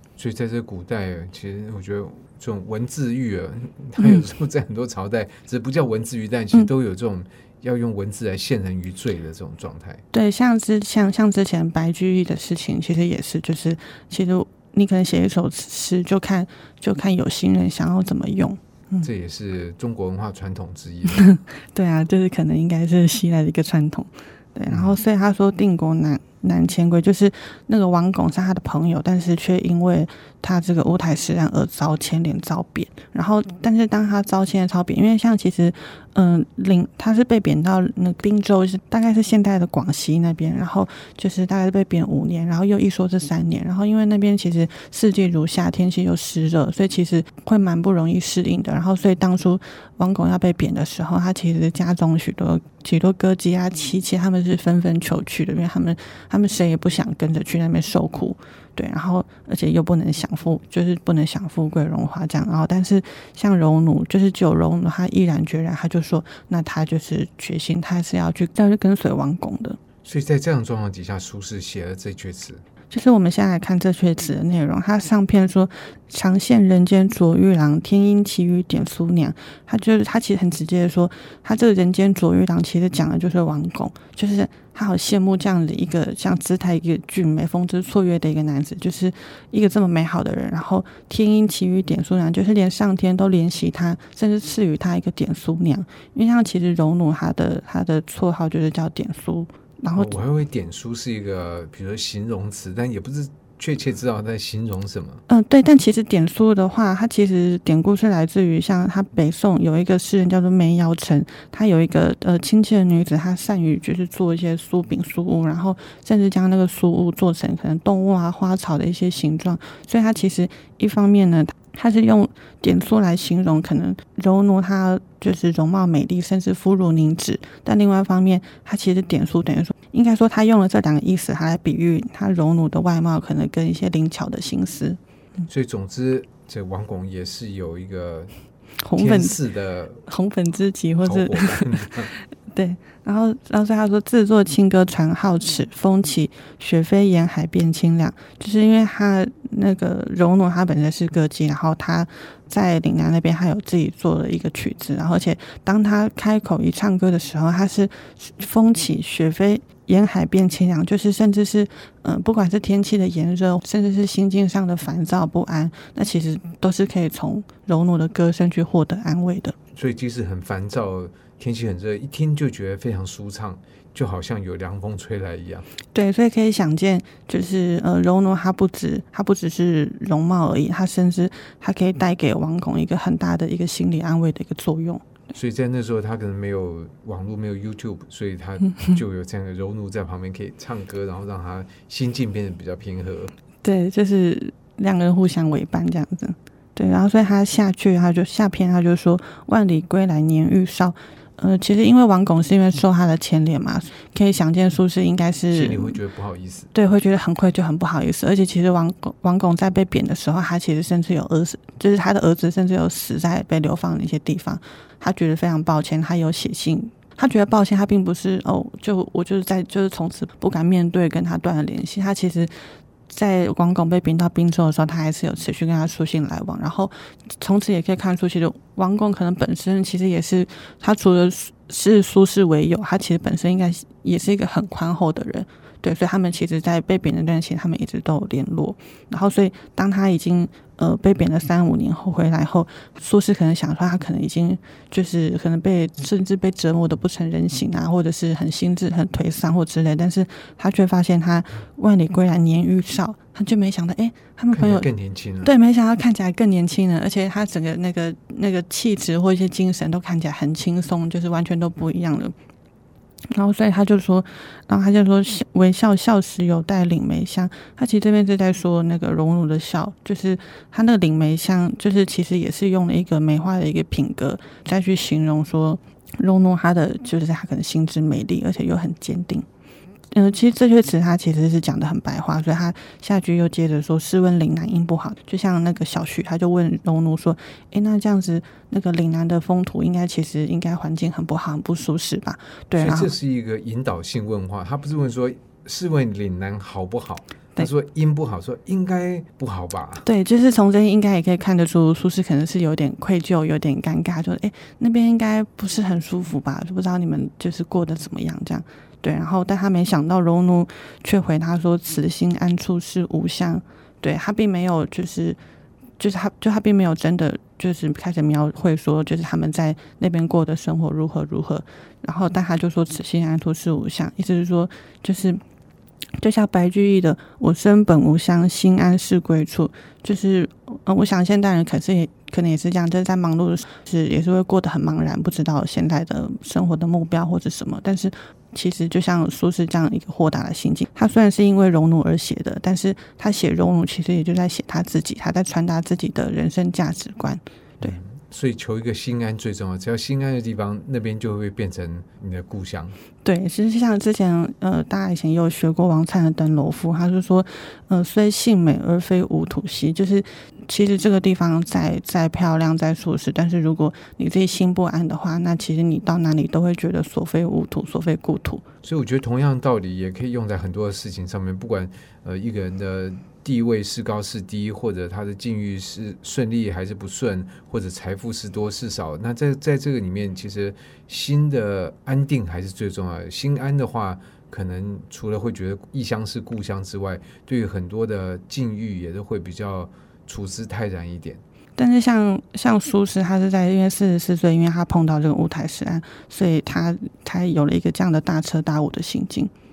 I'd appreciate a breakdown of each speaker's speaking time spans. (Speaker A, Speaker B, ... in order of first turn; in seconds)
Speaker A: 0.2-10.0, 19.0-21.3, 24.7-25.0, 70.0-72.6, 99.9-105.2, 135.5-138.3, 138.9-140.1, 141.0-142.1, 169.7-175.7, 185.3-193.3, 205.5-206.7, 254.5-255.5, 292.8-300.1, 347.8-352.9, 368.8-391.4
Speaker B: 4.0-4.2, 10.1-19.1, 21.1-69.8, 72.9-100.1, 105.3-135.0, 138.8-139.4, 140.1-141.9, 142.5-169.5, 175.9-185.0, 193.6-206.0, 206.7-222.5, 223.1-254.9, 255.4-262.3, 263.3-279.4, 280.1-293.1, 300.0-315.4, 316.0-325.4, 326.2-347.9, 353.2-368.6, 391.8-399.5